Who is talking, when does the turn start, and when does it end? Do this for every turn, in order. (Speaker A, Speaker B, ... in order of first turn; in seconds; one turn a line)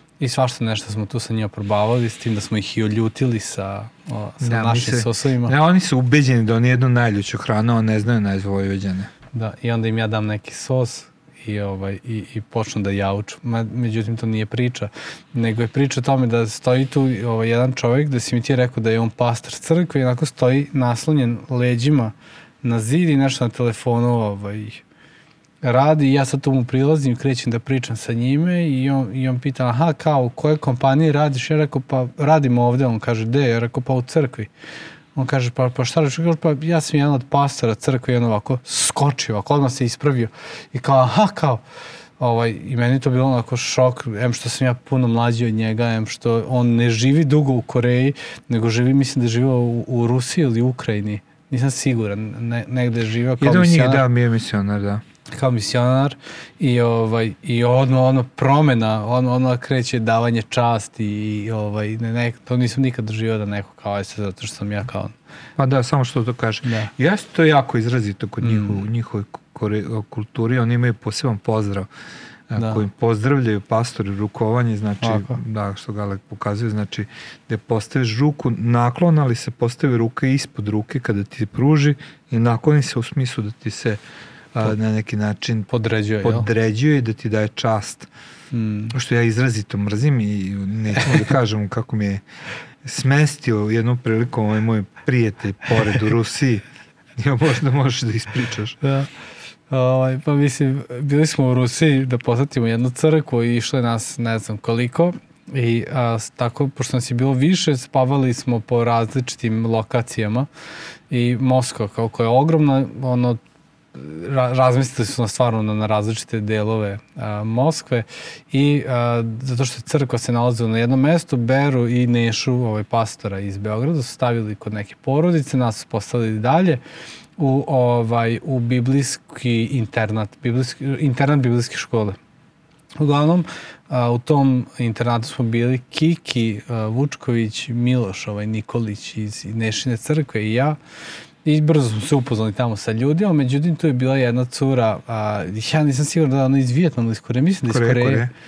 Speaker A: 0.2-5.5
Speaker B: 4.4-9.1
Speaker A: 9.3-24.8
Speaker A: 25.6-34.5
Speaker A: 35.1-41.6
Speaker A: 42.2-54.0
Speaker B: 53.4-55.0
Speaker A: 55.3-65.1
Speaker B: 65.6-71.9
Speaker A: 66.6-66.9
Speaker A: 68.4-68.8
Speaker B: 72.5-84.0
Speaker A: 72.6-72.8
Speaker A: 75.0-75.4
Speaker B: 84.5-85.7
Speaker A: 85.7-86.5
Speaker B: 86.2-88.1
Speaker A: 88.5-88.9
Speaker B: 88.9-92.2
Speaker B: 92.8-96.6
Speaker B: 97.2-98.8
Speaker A: 98.8-99.1
Speaker A: 99.7-110.5
Speaker A: 111.1-113.4
Speaker A: 113.9-126.8
Speaker A: 127.4-132.2
Speaker A: 133.0-140.8
Speaker A: 141.4-148.3
Speaker B: 147.7-148.3